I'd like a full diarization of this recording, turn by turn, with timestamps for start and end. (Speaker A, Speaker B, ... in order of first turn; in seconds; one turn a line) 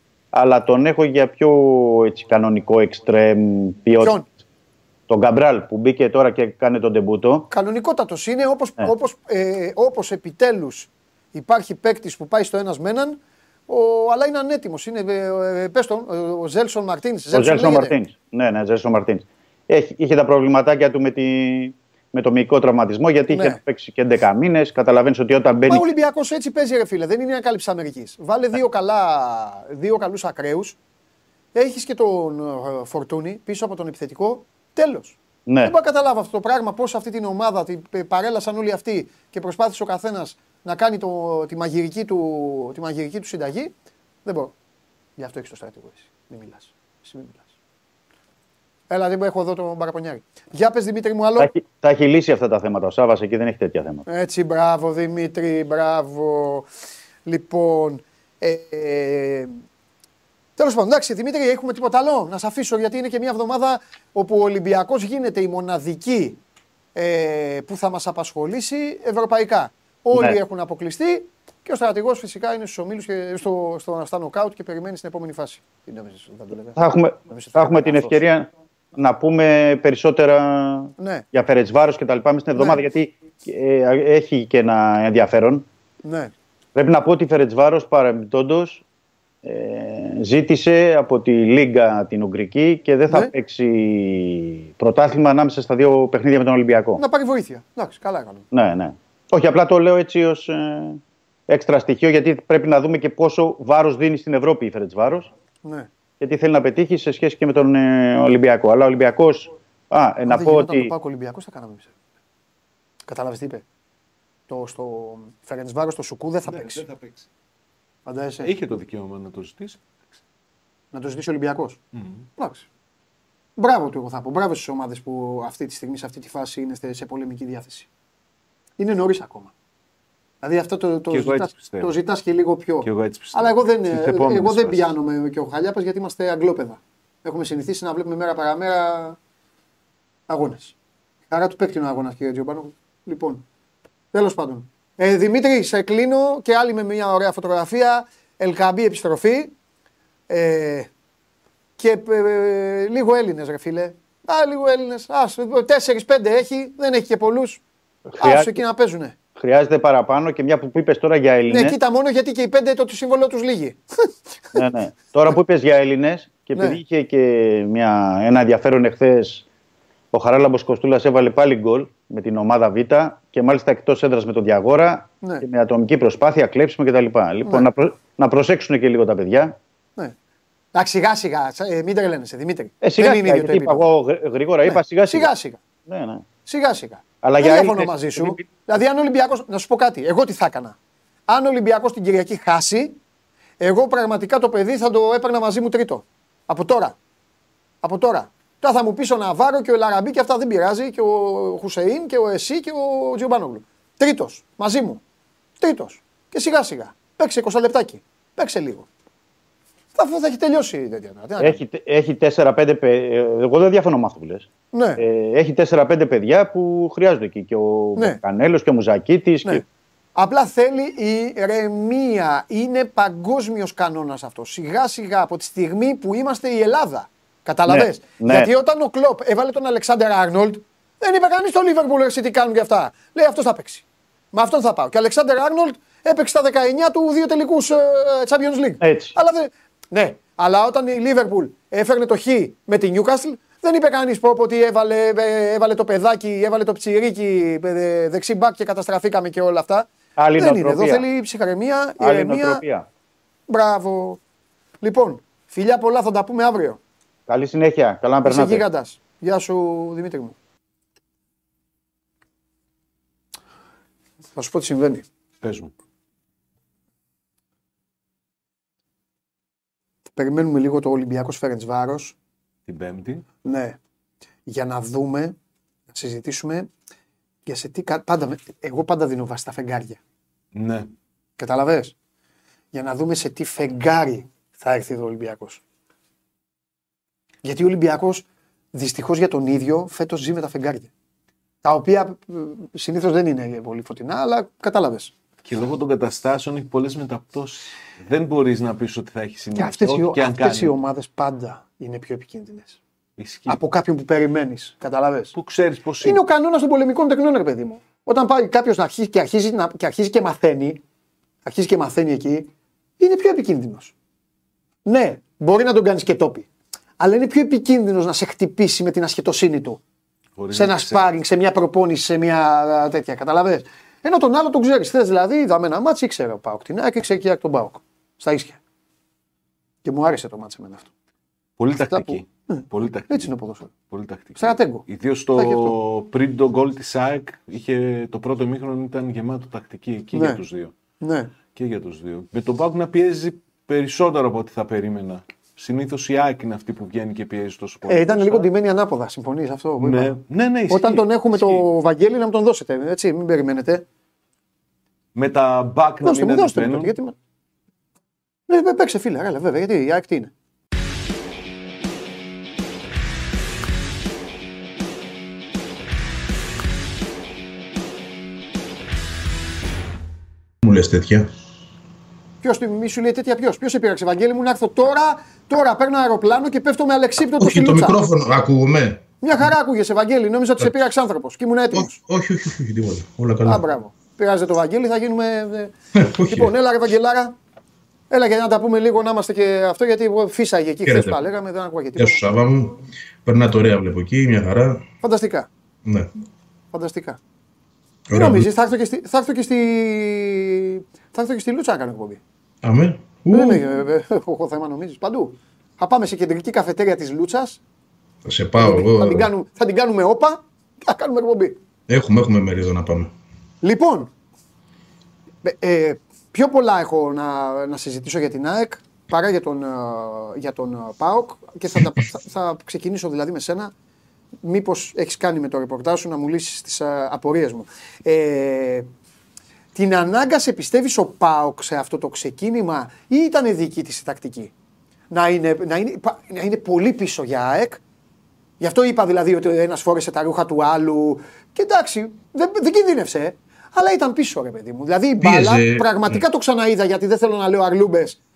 Speaker A: 0.3-4.2
Speaker B: 4.0-4.3
Speaker A: 5.1-7.4
Speaker B: 7.5-17.9
Speaker A: 17.3-25.9
Speaker B: 23.3-23.6
Speaker B: 25.7-30.8
Speaker B: 31.6-43.7
Speaker A: 35.5-35.7
Speaker B: 44.2-44.5
Speaker B: 45.2-47.5
Speaker B: 48.9-51.5
Speaker A: 51.4-54.0
Speaker B: 54.1-56.7
Speaker B: 57.3-59.6
Speaker B: 60.6-66.4
Speaker B: 67.0-78.2
Speaker A: 70.1-70.4
Speaker A: 76.8-85.7
Speaker B: 81.0-81.2
Speaker B: 82.6-82.8
Speaker B: 86.0-86.3
Speaker A: 86.7-88.8
Speaker A: 89.5-97.0
Speaker B: 97.0-98.5
Speaker A: 98.5-105.3
Speaker A: 106.2-110.9
Speaker B: 110.3-111.9
Speaker B: 113.1-113.6
Speaker B: 114.5-116.8
Speaker C: 116.5-117.2
Speaker B: 118.1-118.5
Speaker C: 118.4-119.8
Speaker B: 120.9-121.8
Speaker C: 122.0-122.3
Speaker B: 122.4-122.7
Speaker B: 123.6-127.9
Speaker B: 128.8-129.5
Speaker B: 130.4-139.2
Speaker C: 131.1-131.9
Speaker C: 132.8-134.9
Speaker B: 140.3-140.7
Speaker B: 141.3-143.4
Speaker B: 144.1-149.5
Speaker B: 150.3-150.9
Speaker B: 151.8-157.6
Speaker A: 158.2-158.6
Speaker B: 158.2-159.1
Speaker A: 159.4-161.8
Speaker B: 161.5-164.6
Speaker A: 164.6-169.4
Speaker B: 166.6-166.8
Speaker A: 170.1-179.5
Speaker B: 180.7-183.9
Speaker A: 182.8-185.3
Speaker B: 184.6-185.6
Speaker A: 185.9-186.2
Speaker B: 186.4-190.7
Speaker A: 187.2-188.7
Speaker B: 191.3-193.0
Speaker B: 193.6-196.9
Speaker B: 197.8-205.0
Speaker B: 205.6-208.9
Speaker B: 209.9-211.6
Speaker A: 211.4-219.6
Speaker B: 214.7-215.0
Speaker B: 220.2-252.6
Speaker A: 227.7-228.5
Speaker A: 238.8-239.1
Speaker A: 250.2-251.0
Speaker A: 252.0-252.8
Speaker B: 253.5-254.2
Speaker B: 254.8-256.8
Speaker A: 257.3-258.6
Speaker B: 258.2-260.4
Speaker B: 264.4-265.1
Speaker C: 265.4-265.7
Speaker B: 270.2-272.1
Speaker C: 272.7-273.2
Speaker B: 273.4-273.8
Speaker B: 274.5-275.4
Speaker B: 275.9-276.7
Speaker B: 277.4-280.0
Speaker C: 280.5-280.9
Speaker B: 281.4-281.9
Speaker B: 282.7-285.6
Speaker B: 287.4-290.9
Speaker B: 291.6-295.1
Speaker C: 295.4-300.8
Speaker B: 299.6-302.8
Speaker C: 303.2-303.6
Speaker B: 303.5-305.3
Speaker C: 305.3-306.2
Speaker B: 306.0-310.8
Speaker B: 311.4-312.5
Speaker B: 313.0-313.9
Speaker B: 314.9-316.4
Speaker B: 317.0-319.8
Speaker C: 320.4-321.1
Speaker B: 320.5-328.6
Speaker B: 329.8-330.9
Speaker C: 331.6-340.7
Speaker B: 331.9-333.7
Speaker B: 334.4-335.8
Speaker B: 340.1-340.4
Speaker B: 341.0-341.3
Speaker C: 341.5-348.5
Speaker B: 347.9-350.2
Speaker C: 349.8-351.6
Speaker B: 350.7-353.8
Speaker C: 355.1-356.9
Speaker B: 356.0-357.1
Speaker B: 358.5-360.3
Speaker D: 370.6-371.3
Speaker B: 372.4-378.0
Speaker D: 377.4-379.1
Speaker B: 379.2-381.9
Speaker D: 381.7-383.6
Speaker B: 383.4-387.4
Speaker D: 386.0-386.5
Speaker B: 388.1-392.2
Speaker D: 390.9-391.2
Speaker D: 391.9-394.8
Speaker B: 395.0-395.5
Speaker B: 396.7-397.2
Speaker D: 398.1-398.5
Speaker B: 398.1-402.2
Speaker D: 402.6-403.6
Speaker B: 403.3-407.6
Speaker D: 408.2-409.3
Speaker B: 408.6-411.6
Speaker D: 411.9-413.1
Speaker B: 413.6-414.1
Speaker B: 415.4-423.7
Speaker B: 424.4-428.9
Speaker B: 429.7-434.5
Speaker B: 435.1-437.8
Speaker B: 438.6-448.2
Speaker D: 445.2-446.2